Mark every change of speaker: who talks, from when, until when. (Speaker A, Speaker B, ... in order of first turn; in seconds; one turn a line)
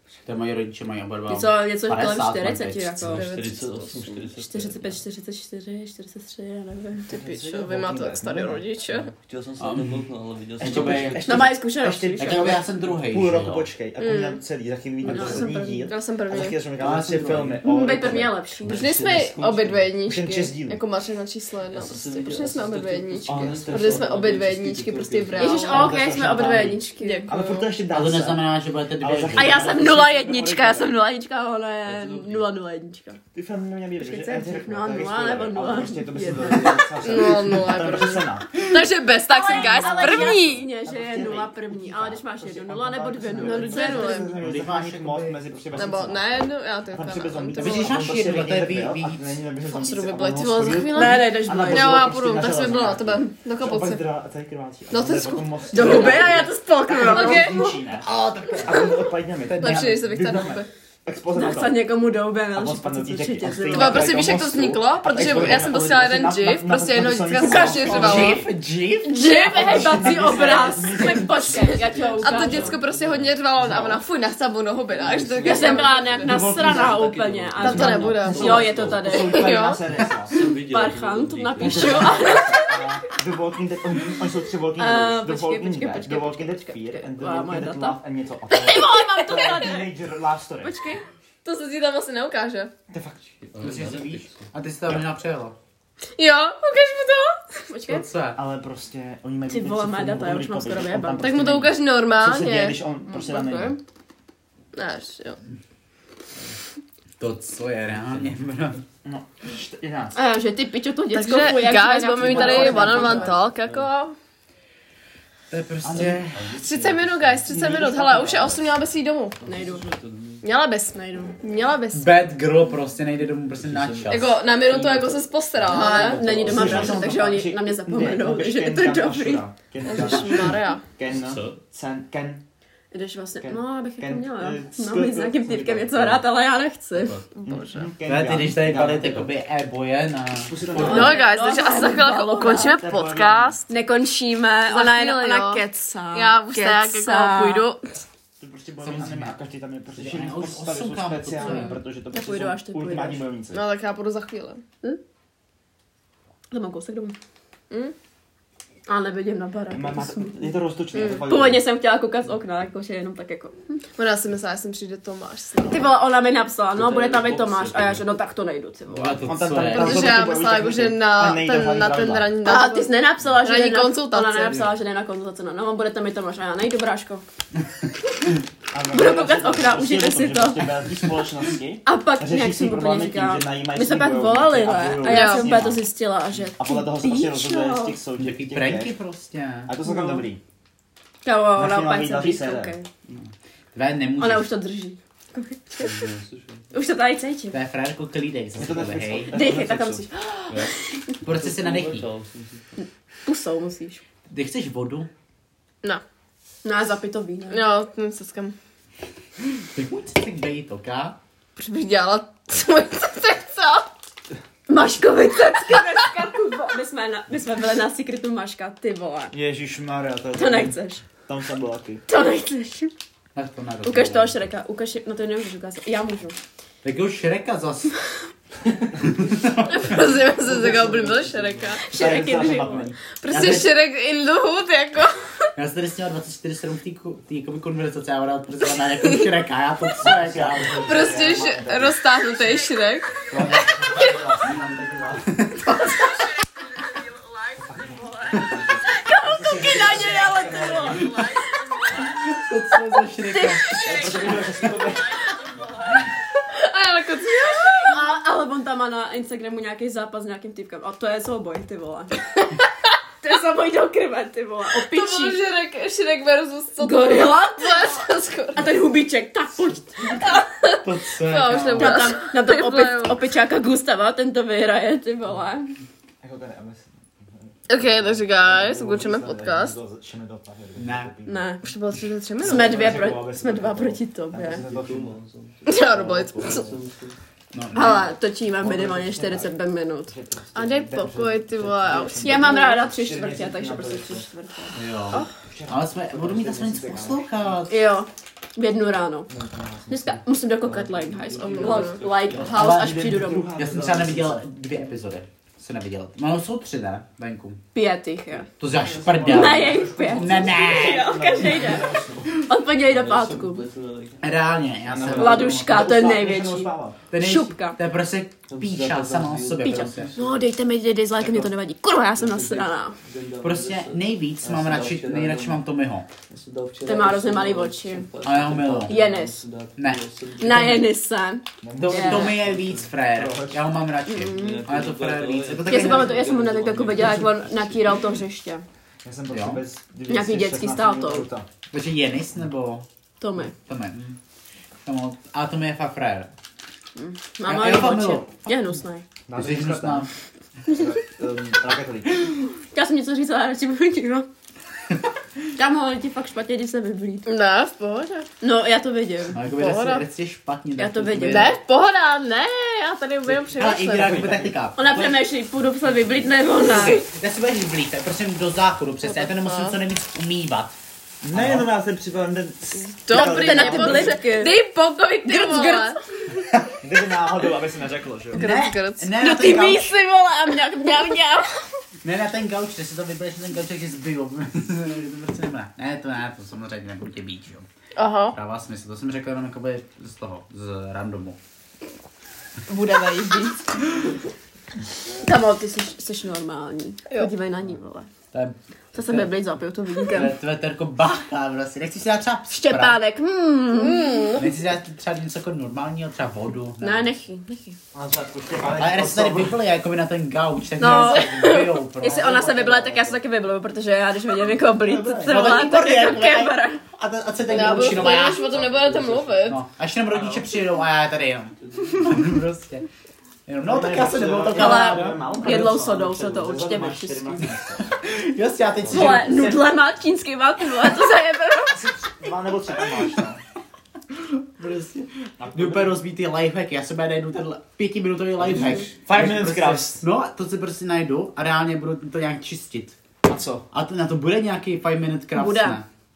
Speaker A: 0.2-3.2
Speaker B: 1.3-3.2
Speaker C: 3.0-5.0
Speaker D: 3.1-4.2
Speaker B: 4.4-7.1
Speaker D: 7.1-9.1
Speaker E: 7.1-8.7
Speaker C: 8.9-11.4
Speaker A: 9.6-9.9
Speaker E: 10.6-19.2
Speaker A: 10.6-11.3
Speaker B: 11.2-12.6
Speaker A: 12.2-13.7
Speaker D: 14.0-14.4
Speaker B: 15.0-15.9
Speaker D: 15.1-16.6
Speaker A: 16.8-17.6
Speaker C: 16.8-17.6
Speaker B: 17.6-18.9
Speaker C: 18.6-19.9
Speaker D: 18.7-26.0
Speaker E: 20.0-20.8
Speaker C: 21.7-25.7
Speaker E: 23.2-24.4
Speaker B: 25.4-27.3
Speaker E: 25.5-30.9
Speaker D: 27.0-27.7
Speaker A: 27.9-29.8
Speaker B: 29.3-33.2
Speaker C: 31.9-32.5
Speaker E: 33.3-38.6
Speaker B: 34.0-36.9
Speaker D: 37.0-40.7
Speaker B: 39.3-44.3
Speaker E: 40.0-58.1
Speaker D: 43.4-44.4
Speaker A: 44.4-45.9
Speaker D: 45.8-48.1
Speaker A: 47.6-49.4
Speaker D: 49.7-54.0
Speaker B: 50.9-52.1
Speaker D: 54.9-56.3
Speaker B: 55.7-57.6
Speaker D: 57.0-57.8
Speaker A: 58.0-59.9
Speaker E: 58.6-61.9
Speaker D: 59.6-60.7
Speaker B: 61.3-64.3
Speaker E: 62.5-68.5
Speaker D: 63.7-68.5
Speaker A: 67.3-69.4
Speaker B: 69.0-72.8
Speaker D: 69.1-70.2
Speaker E: 69.3-71.7
Speaker D: 71.0-76.2
Speaker C: 71.7-73.6
Speaker E: 73.6-74.0
Speaker C: 74.9-79.0
Speaker B: 75.4-79.7
Speaker E: 76.2-77.1
Speaker D: 77.6-79.8
Speaker E: 78.1-80.3
Speaker C: 80.0-82.3
Speaker B: 80.3-83.0
Speaker E: 81.6-90.8
Speaker B: 84.8-89.9
Speaker B: 90.6-91.0
Speaker D: 91.4-92.7
Speaker E: 92.9-93.2
Speaker C: 93.4-94.5
Speaker A: 93.6-95.6
Speaker D: 96.2-97.6
Speaker B: 97.7-98.0
Speaker A: 97.9-98.4
Speaker E: 98.3-103.8
Speaker B: 99.5-101.2
Speaker D: 101.2-103.7
Speaker D: 104.8-105.4
Speaker A: 107.2-108.8
Speaker E: 109.0-110.2
Speaker B: 110.1-113.3
Speaker D: 111.1-114.2
Speaker C: 112.2-113.9
Speaker E: 112.5-113.0
Speaker A: 115.5-116.5
Speaker E: 115.8-116.2
Speaker C: 116.3-118.6
Speaker D: 116.6-119.4
Speaker E: 117.5-118.5
Speaker C: 119.4-120.4
Speaker B: 119.5-119.9
Speaker D: 120.4-122.1
Speaker B: 120.9-121.4
Speaker A: 121.9-124.3
Speaker C: 123.6-127.0
Speaker D: 124.1-126.3
Speaker B: 125.7-129.4
Speaker E: 126.3-132.4
Speaker A: 126.4-127.3
Speaker D: 129.8-130.8
Speaker C: 131.1-131.6
Speaker B: 132.9-137.2
Speaker E: 133.4-136.3
Speaker C: 136.9-137.3
Speaker D: 137.4-137.9
Speaker E: 137.5-139.3
Speaker A: 138.1-141.2
Speaker E: 140.4-141.2
Speaker B: 140.7-142.8
Speaker D: 140.8-143.6
Speaker E: 142.8-143.6
Speaker B: 143.7-147.7
Speaker D: 144.7-147.9
Speaker E: 148.4-153.7
Speaker A: 148.8-149.4
Speaker A: 149.9-151.8
Speaker B: 151.4-153.3
Speaker D: 153.5-154.6
Speaker B: 156.5-157.2
Speaker B: 158.9-160.6
Speaker E: 159.7-161.7
Speaker D: 160.9-161.3
Speaker B: 161.3-163.6
Speaker D: 164.0-165.8
Speaker B: 165.7-169.3
Speaker C: 166.7-168.1
Speaker A: 168.9-170.3
Speaker E: 169.2-172.4
Speaker D: 169.7-174.7
Speaker B: 172.4-177.3
Speaker E: 178.7-185.8
Speaker B: 178.9-180.8
Speaker B: 181.8-188.0
Speaker D: 185.0-185.6
Speaker E: 186.6-188.9
Speaker A: 188.2-189.8
Speaker E: 189.7-190.4
Speaker B: 189.8-190.2
Speaker B: 191.2-192.9
Speaker E: 191.5-192.8
Speaker A: 193.7-194.5
Speaker B: 194.2-196.1
Speaker C: 195.8-196.7
Speaker B: 196.7-197.6
Speaker A: 197.5-199.3
Speaker E: 198.6-200.1
Speaker B: 199.3-201.1
Speaker A: 201.2-202.1
Speaker C: 201.3-202.7
Speaker B: 202.8-204.0
Speaker A: 204.3-205.1
Speaker B: 206.6-207.7
Speaker D: 207.5-208.6
Speaker A: 209.7-211.2
Speaker D: 211.6-213.9
Speaker B: 214.7-219.3
Speaker E: 219.3-222.0
Speaker B: 220.3-221.1
Speaker B: 222.1-222.9
Speaker A: 223.3-224.4
Speaker B: 223.8-226.4
Speaker A: 226.8-227.9
Speaker E: 228.8-229.5
Speaker A: 229.1-230.2
Speaker D: 229.6-231.9
Speaker E: 230.4-231.2
Speaker C: 231.2-231.5
Speaker B: 231.8-232.9
Speaker E: 231.8-233.7
Speaker D: 233.2-235.2
Speaker A: 235.6-241.2
Speaker E: 240.0-242.0
Speaker D: 240.8-243.3
Speaker E: 243.3-245.4
Speaker A: 245.3-246.2
Speaker E: 247.6-251.2
Speaker B: 248.9-251.3
Speaker D: 250.8-252.1
Speaker A: 252.0-253.8
Speaker B: 253.2-254.5
Speaker E: 253.8-255.2
Speaker D: 256.5-258.0
Speaker B: 257.8-262.4
Speaker B: 263.2-265.4
Speaker D: 264.9-268.7
Speaker B: 266.8-268.0
Speaker B: 268.5-270.2
Speaker D: 270.2-273.2
Speaker A: 270.8-272.1
Speaker B: 271.8-275.8
Speaker E: 276.2-281.5
Speaker D: 277.7-279.8
Speaker A: 280.8-281.1
Speaker B: 281.3-281.6
Speaker D: 281.6-282.9
Speaker E: 282.4-285.2
Speaker B: 282.4-284.6
Speaker C: 284.6-287.2
Speaker D: 285.7-286.7
Speaker E: 285.9-286.7
Speaker A: 287.5-288.1
Speaker B: 287.7-290.1
Speaker E: 288.5-294.3
Speaker D: 290.6-292.8
Speaker B: 292.2-295.3
Speaker A: 294.7-297.7
Speaker E: 295.1-297.6
Speaker B: 297.7-299.3
Speaker E: 299.3-300.9
Speaker B: 299.9-303.5
Speaker C: 300.8-302.6
Speaker D: 301.4-302.0
Speaker A: 302.4-307.6
Speaker E: 302.5-304.5
Speaker B: 307.7-308.5
Speaker A: 308.6-311.4
Speaker E: 308.6-312.4
Speaker B: 309.2-313.6
Speaker C: 312.8-314.3
Speaker A: 314.2-315.8
Speaker E: 314.9-317.0
Speaker B: 315.0-317.8
Speaker A: 317.1-320.1
Speaker C: 318.5-320.5
Speaker B: 319.6-323.0
Speaker C: 321.2-321.5
Speaker C: 322.1-325.6
Speaker A: 323.4-326.1
Speaker C: 326.3-330.8
Speaker B: 326.9-328.1
Speaker A: 328.2-329.0
Speaker B: 328.9-329.4
Speaker A: 329.8-330.8
Speaker B: 330.4-332.4
Speaker E: 331.6-333.6
Speaker A: 331.8-336.2
Speaker B: 334.1-334.7
Speaker C: 334.3-337.9
Speaker B: 335.7-338.6
Speaker E: 339.0-341.5
Speaker A: 339.3-339.6
Speaker B: 340.1-341.3
Speaker A: 341.7-342.9
Speaker B: 343.2-343.5
Speaker A: 343.4-344.2
Speaker A: 344.9-346.3
Speaker B: 347.0-349.1
Speaker A: 347.4-348.5
Speaker E: 349.3-350.1
Speaker A: 349.3-350.1
Speaker E: 350.7-352.3
Speaker B: 352.6-354.3
Speaker B: 355.6-357.3
Speaker D: 357.3-358.3
Speaker B: 358.4-359.4
Speaker A: 359.3-361.6
Speaker D: 359.4-360.0
Speaker B: 360.8-361.6
Speaker D: 361.2-364.4
Speaker A: 363.3-365.3
Speaker E: 363.9-364.6
Speaker B: 364.8-367.1
Speaker A: 366.6-370.8
Speaker D: 369.0-369.8
Speaker E: 371.2-374.2
Speaker A: 371.3-371.7
Speaker D: 373.0-376.0
Speaker B: 373.1-374.6
Speaker B: 375.2-376.0
Speaker E: 376.8-378.5
Speaker D: 378.3-379.1
Speaker A: 378.3-379.9
Speaker B: 379.2-381.5
Speaker A: 382.0-387.7
Speaker D: 388.0-388.4
Speaker A: 388.3-391.4
Speaker D: 392.7-393.5
Speaker B: 392.7-393.4
Speaker B: 395.2-398.1
Speaker A: 398.3-399.3
Speaker B: 398.9-400.3
Speaker A: 400.1-403.0
Speaker B: 402.5-404.3
Speaker D: 403.7-404.5
Speaker A: 404.4-407.1
Speaker B: 406.8-407.8
Speaker E: 407.9-409.6
Speaker A: 408.8-412.5
Speaker B: 410.8-416.8
Speaker D: 411.0-411.4
Speaker E: 412.0-413.2
Speaker A: 414.8-418.5
Speaker C: 417.4-420.6
Speaker D: 417.5-419.6
Speaker A: 419.5-422.9
Speaker C: 421.6-422.2
Speaker A: 423.5-425.7
Speaker E: 423.6-428.0
Speaker B: 424.5-427.4
Speaker A: 428.0-429.7
Speaker C: 428.8-429.2
Speaker B: 428.9-432.0
Speaker E: 431.7-433.4
Speaker A: 434.1-443.0
Speaker E: 435.4-436.0
Speaker C: 438.4-438.9
Speaker E: 438.5-440.1
Speaker E: 443.2-443.7
Speaker A: 443.7-445.9
Speaker B: 445.3-445.8